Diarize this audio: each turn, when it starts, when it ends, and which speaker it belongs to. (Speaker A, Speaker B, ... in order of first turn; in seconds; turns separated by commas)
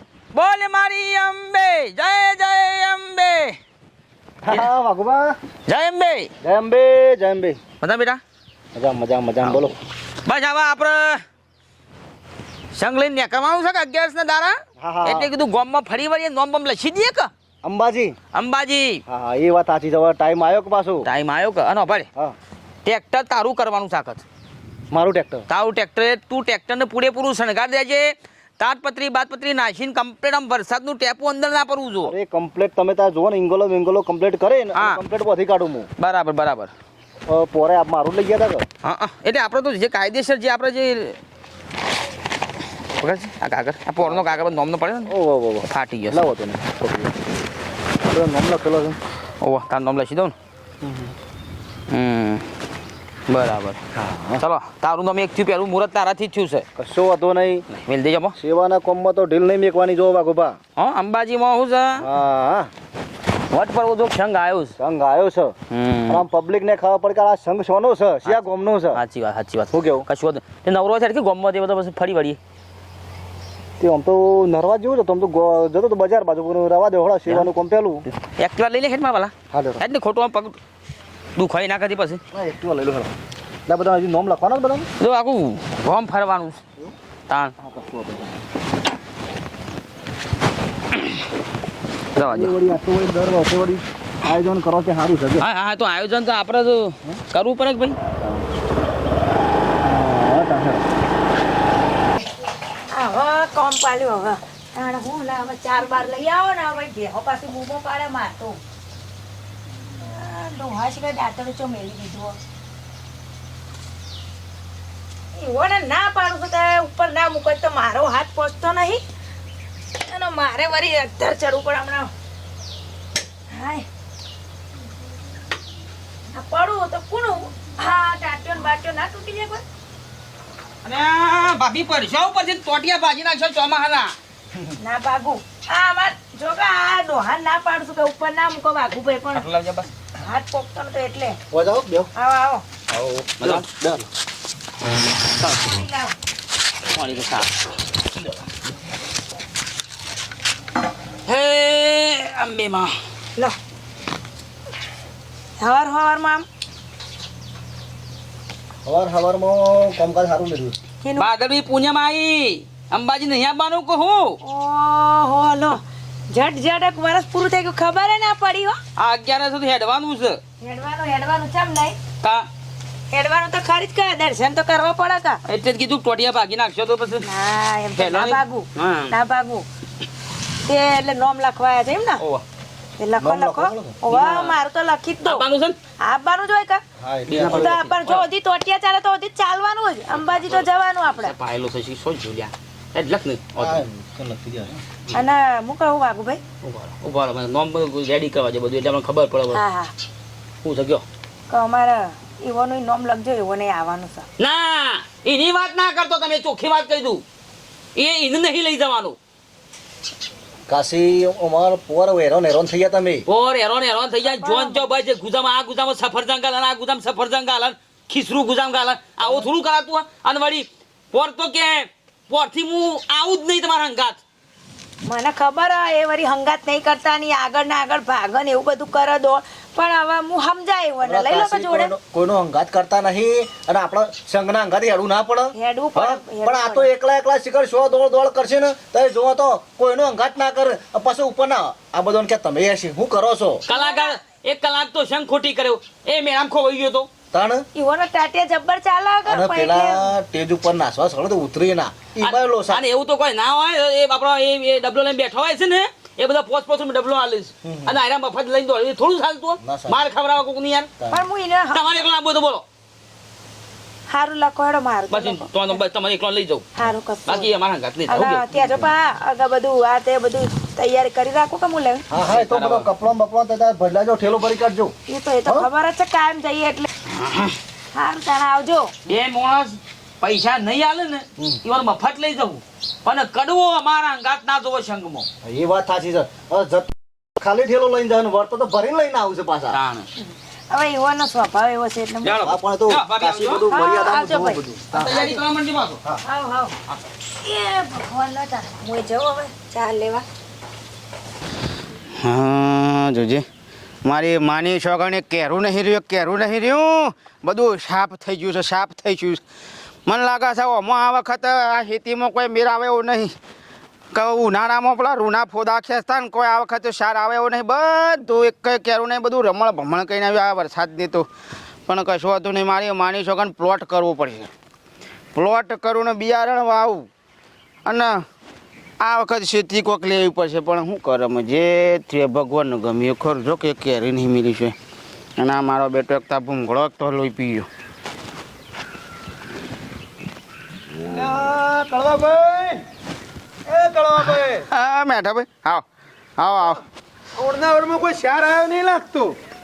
Speaker A: 0.3-3.6, Speaker B: 4.4-5.4, Speaker A: 5.7-6.3, Speaker B: 6.4-7.6, Speaker A: 7.8-8.2, Speaker B: 8.7-9.7, Speaker A: 10.2-11.2, Speaker A: 12.8-17.3, Speaker B: 14.8-15.3, Speaker B: 17.6-18.1, Speaker A: 18.3-19.0, Speaker B: 19.1-21.1, Speaker A: 21.0-22.1, Speaker A: 22.8-24.2, Speaker B: 24.9-25.4, Speaker A: 25.5-32.1, Speaker B: 32.0-35.9, Speaker A: 34.7-35.0, Speaker A: 36.0-36.7, Speaker B: 37.3-38.7, Speaker A: 38.8-41.1, Speaker A: 43.0-45.1, Speaker B: 44.0-44.4, Speaker B: 45.0-47.4, Speaker A: 45.7-46.2, Speaker B: 48.0-49.0, Speaker A: 49.4-50.3, Speaker B: 50.8-51.1, Speaker A: 51.9-52.5, Speaker A: 53.3-53.8, Speaker B: 53.9-54.4, Speaker A: 54.4-56.6, Speaker B: 56.8-57.6, Speaker A: 57.7-58.3, Speaker B: 58.3-60.6, Speaker A: 60.8-62.1, Speaker B: 62.0-62.7, Speaker A: 63.5-64.8, Speaker B: 64.8-65.5, Speaker A: 65.7-66.2, Speaker B: 66.1-69.0, Speaker A: 68.2-72.4, Speaker B: 69.7-70.0, Speaker B: 73.8-78.0, Speaker A: 78.4-80.5, Speaker B: 79.5-79.8, Speaker A: 81.3-82.2, Speaker B: 82.3-83.1, Speaker B: 83.7-84.9, Speaker A: 85.0-86.6, Speaker A: 87.3-87.5, Speaker B: 87.6-88.4, Speaker A: 92.2-92.5, Speaker B: 92.3-95.5, Speaker A: 95.4-98.0, Speaker B: 99.8-100.9, Speaker C: 102.9-108.6, Speaker C: 110.0-112.4, Speaker C: 115.3-119.0, Speaker C: 120.0-122.1, Speaker C: 123.5-123.8, Speaker C: 126.3-129.6, Speaker A: 130.8-134.1, Speaker C: 134.8-139.4, Speaker A: 139.3-139.9, Speaker C: 140.2-141.4, Speaker B: 141.5-142.1, Speaker C: 142.1-142.6, Speaker A: 142.9-143.7, Speaker B: 143.4-144.0, Speaker C: 145.5-146.1, Speaker A: 146.9-147.6, Speaker A: 151.2-152.9, Speaker C: 155.6-156.4, Speaker B: 158.8-160.8, Speaker C: 161.0-161.3, Speaker A: 161.2-164.4, Speaker C: 164.4-168.8, Speaker A: 169.0-170.4, Speaker C: 170.6-172.0, Speaker A: 172.2-172.5, Speaker C: 173.1-175.4, Speaker A: 175.4-177.2, Speaker C: 177.2-179.7, Speaker A: 177.9-179.1, Speaker C: 180.6-182.2, Speaker C: 183.0-185.4, Speaker B: 183.2-184.0, Speaker A: 184.1-184.6, Speaker A: 185.2-185.8, Speaker C: 186.0-186.8, Speaker B: 187.0-187.8, Speaker A: 187.3-188.2, Speaker C: 187.4-191.3, Speaker A: 190.1-193.8, Speaker B: 193.6-194.8, Speaker C: 195.1-196.4, Speaker A: 196.6-199.6, Speaker C: 199.5-199.9, Speaker A: 200.6-201.0, Speaker C: 201.5-204.3, Speaker A: 204.4-207.2, Speaker A: 207.9-209.2, Speaker B: 210.7-213.2, Speaker A: 213.3-224.2, Speaker C: 214.2-214.9, Speaker C: 225.1-231.9, Speaker B: 231.0-243.6, Speaker C: 235.5-236.9, Speaker A: 243.7-247.1, Speaker C: 243.7-244.2, Speaker B: 247.3-247.6, Speaker C: 247.7-250.1, Speaker B: 249.2-252.8, Speaker A: 252.2-260.9, Speaker B: 257.6-258.0, Speaker B: 259.6-260.0, Speaker C: 261.1-261.9, Speaker A: 261.7-262.6, Speaker C: 264.1-265.5, Speaker A: 265.1-266.7, Speaker C: 266.7-267.5, Speaker A: 267.3-268.5, Speaker C: 268.1-272.0, Speaker B: 272.1-274.9, Speaker A: 272.2-272.9, Speaker C: 275.1-276.9, Speaker D: 277.2-277.5, Speaker C: 277.9-278.9, Speaker A: 279.1-285.3, Speaker B: 285.4-289.8, Speaker A: 289.7-290.1, Speaker C: 290.7-292.4, Speaker A: 292.2-293.6, Speaker B: 292.4-295.4, Speaker C: 293.7-294.6, Speaker A: 294.9-296.0, Speaker C: 295.1-295.4, Speaker C: 296.2-296.7, Speaker C: 297.3-300.2, Speaker D: 302.2-303.4, Speaker D: 304.0-309.4, Speaker D: 310.1-313.3, Speaker D: 314.1-321.3, Speaker D: 321.9-324.5, Speaker D: 325.3-327.1, Speaker D: 327.9-328.2, Speaker D: 329.0-334.8, Speaker D: 335.4-337.7, Speaker E: 341.1-342.8, Speaker E: 343.7-344.6, Speaker D: 344.7-345.8, Speaker D: 346.4-346.8, Speaker E: 347.4-349.3